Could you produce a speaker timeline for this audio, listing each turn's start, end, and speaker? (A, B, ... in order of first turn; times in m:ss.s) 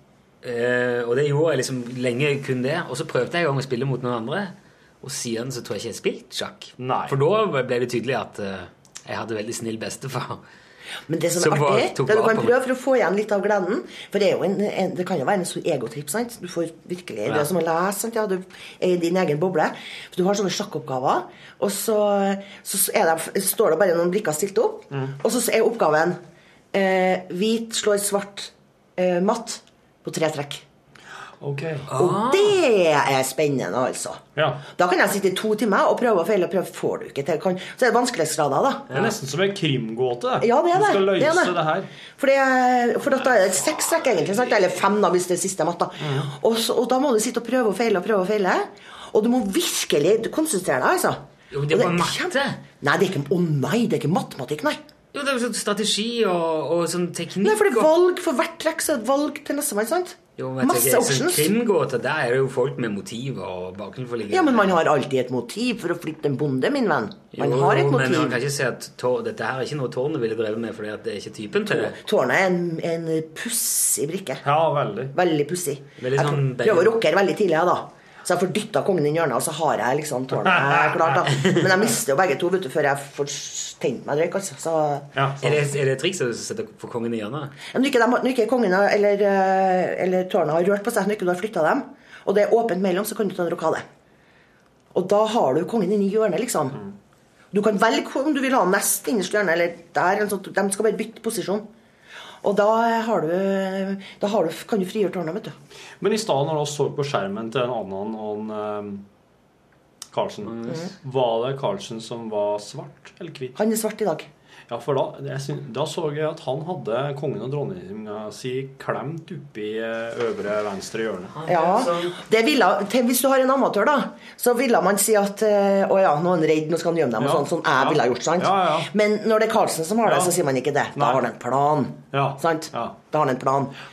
0:00.4-0:10.4 A
0:06.8-0:07.2 B
0:11.1-0:26.2 C
0:11.4-0:12.5 A
0:26.7-0:30.6 C
0:31.4-0:31.9 B
0:31.9-0:32.6 A
0:32.0-0:38.9 C
0:34.4-0:34.6 B
0:38.9-0:39.1 A
0:38.9-0:41.9 B
0:40.4-0:41.6 C
0:42.2-0:54.8 C
0:46.0-0:46.3 B
0:51.5-0:52.6 A
0:55.1-0:57.9 A
0:57.4-1:01.5 C
1:00.4-1:04.8 A
1:04.3-1:08.4 C
1:07.3-1:12.0 A
1:11.9-1:14.4 C
1:14.4-1:15.1 B
1:15.1-1:25.1 C
1:16.0-1:17.0 A
1:20.4-1:21.3 B
1:21.3-1:21.6 A
1:25.1-1:25.6 B
1:25.4-1:27.6 A
1:27.7-1:33.8 C
1:34.9-1:36.8 C
1:37.5-1:41.7 C
1:42.4-1:45.5 C
1:46.0-1:49.0 B
1:50.1-1:53.6 B
1:53.5-1:54.3 C
1:54.7-2:01.3 B
2:01.3-2:02.2 A
2:01.5-2:13.7 C
2:07.2-2:08.9 B
2:10.0-2:10.3 B
2:10.9-2:11.2 B
2:12.1-2:13.0 B